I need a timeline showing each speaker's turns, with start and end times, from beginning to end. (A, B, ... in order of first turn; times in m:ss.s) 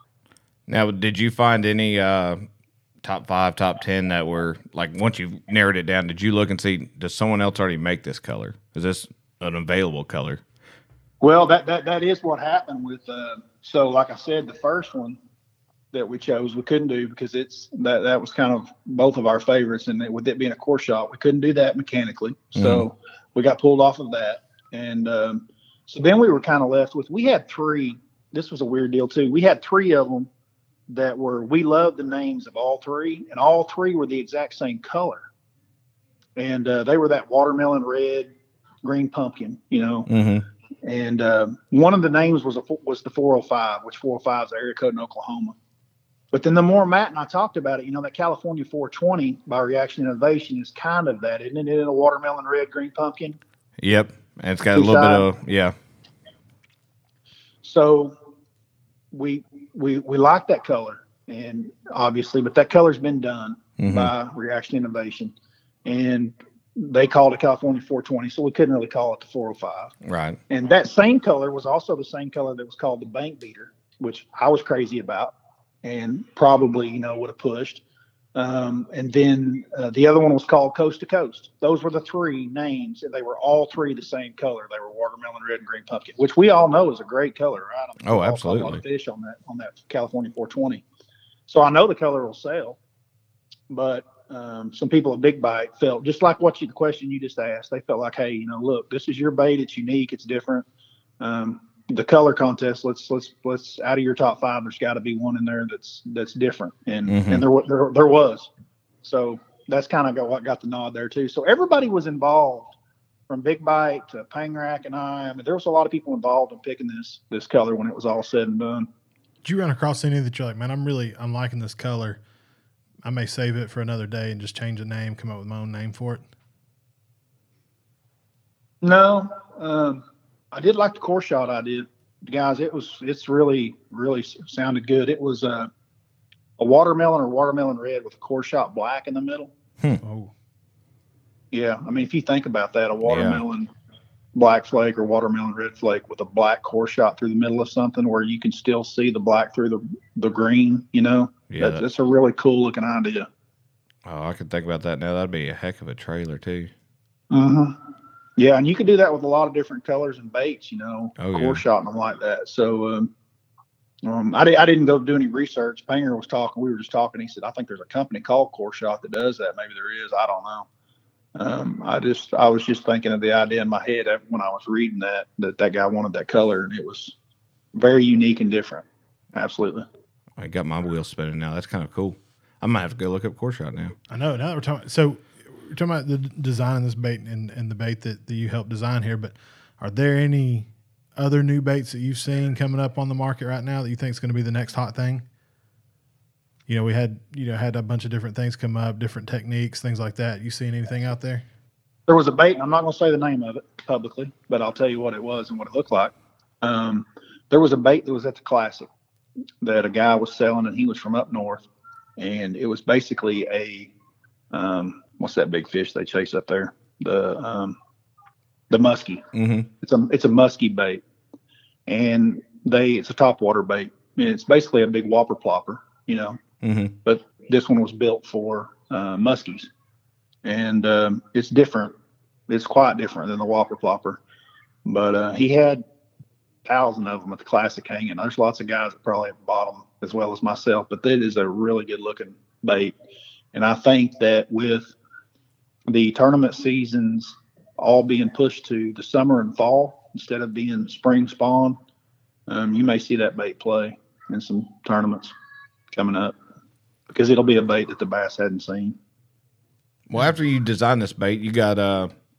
0:00.7-0:02.4 A
0:03.0-0:10.4 A
0:11.2-0:15.2 B
0:15.9-0:30.3 B
0:22.6-0:22.9 A
0:30.9-0:35.2 B
0:36.4-0:38.3 B
0:38.8-0:40.1 B
0:40.1-0:40.4 A
0:40.8-0:45.5 B
0:46.3-0:53.4 B
0:53.8-0:55.7 A
0:54.7-0:55.3 B
0:57.6-0:58.1 B
0:59.1-1:05.3 B
1:03.8-1:04.1 A
1:05.8-1:09.9 B
1:10.0-1:10.4 A
1:10.5-1:17.8 B
1:18.3-1:30.8 B
1:28.0-1:28.8 A
1:31.5-1:32.8 B
1:33.7-1:40.7 B
1:41.2-1:48.5 B
1:47.1-1:47.4 A
1:49.0-1:52.7 B
1:53.3-1:58.9 B
1:59.4-2:02.2 C
2:03.0-2:06.2 C
2:08.8-2:15.7 B
2:16.6-2:19.5 B
2:20.0-2:20.3 C
2:21.5-2:23.7 B
2:23.0-2:23.4 A
2:24.3-2:33.3 B
2:31.5-2:31.8 A
2:34.0-2:36.7 A
2:37.3-2:37.8 B
2:38.4-2:43.1 B
2:41.2-2:41.6 A
2:44.0-2:50.7 B
2:51.4-2:57.1 B
2:57.7-2:59.9 B
3:00.4-3:03.9 A
3:04.1-3:15.2 C
3:16.7-3:21.4 C
3:22.1-3:28.9 B
3:29.6-3:31.7 B
3:32.2-3:33.9 B
3:34.5-3:37.8 B
3:38.7-3:39.2 B
3:39.3-3:39.7 A
3:39.8-3:41.0 B
3:41.9-3:46.4 B
3:46.6-3:47.0 A
3:47.0-3:49.7 B
3:50.4-3:51.9 B
3:52.5-3:54.2 B
3:54.8-3:55.8 B
3:56.6-4:02.9 B
4:03.5-4:04.9 B
4:05.9-4:11.8 B
4:12.5-4:15.3 B
4:15.9-4:16.4 B
4:17.1-4:19.0 B
4:20.1-4:22.1 A